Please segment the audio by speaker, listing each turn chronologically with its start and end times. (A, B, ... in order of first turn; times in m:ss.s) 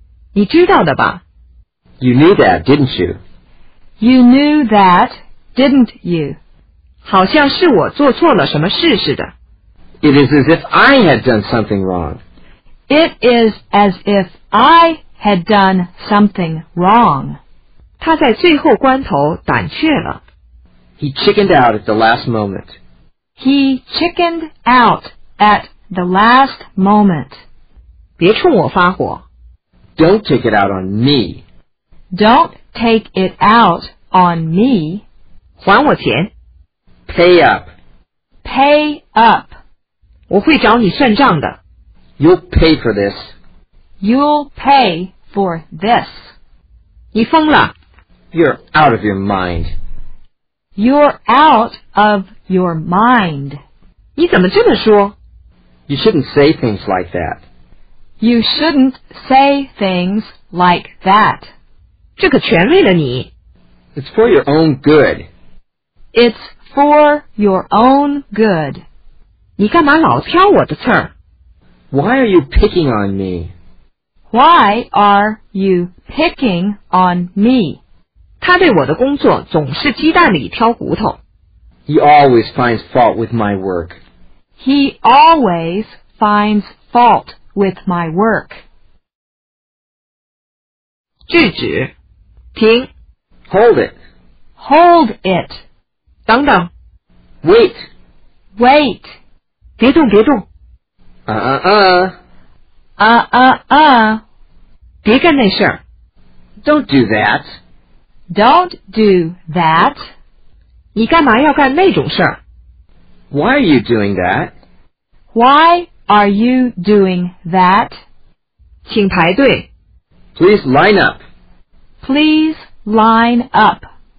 0:00.3-0:01.2 A
0:02.0-0:03.2 B
0:04.0-0:06.4 C
0:07.0-0:09.3 A
0:10.0-0:12.2 B
0:12.9-0:17.4 C
0:18.0-0:20.2 A
0:21.0-0:22.7 B
0:23.4-0:27.4 C
0:28.2-0:29.2 A
0:30.0-0:31.4 B
0:32.1-0:35.0 C
0:35.6-0:36.3 A
0:37.1-0:37.7 B
0:38.4-0:39.5 C
0:40.3-0:41.6 A
0:42.2-0:43.3 B
0:44.0-0:46.3 C
0:47.1-0:47.7 A
0:48.3-0:49.7 B
0:50.8-0:53.6 C
0:54.2-0:55.1 A
0:55.9-0:57.4 B
0:58.2-1:01.5 C
1:02.2-1:03.3 A
1:03.9-1:05.3 B
1:06.1-1:08.8 C
1:09.6-1:11.1 A
1:11.9-1:13.5 B
1:14.3-1:17.8 C
1:18.4-1:21.2 A
1:21.9-1:24.0 B
1:24.6-1:28.6 C
1:31.3-1:31.9 A
1:32.5-1:32.9 A
1:33.5-1:33.9 B
1:34.6-1:35.6 C
1:36.2-1:36.7 A
1:37.4-1:37.8 B
1:38.6-1:39.1 C
1:39.8-1:40.4 A
1:41.3-1:42.1 B
1:43.0-1:44.2 C
1:45.0-1:45.8 A
1:46.6-1:47.4 B
1:48.3-1:50.0 C
1:50.9-1:52.4 A
1:53.3-1:54.5 B
1:55.3-1:58.0 C
1:58.8-1:59.7 A
2:00.3-2:01.2 B
2:02.0-2:03.9 C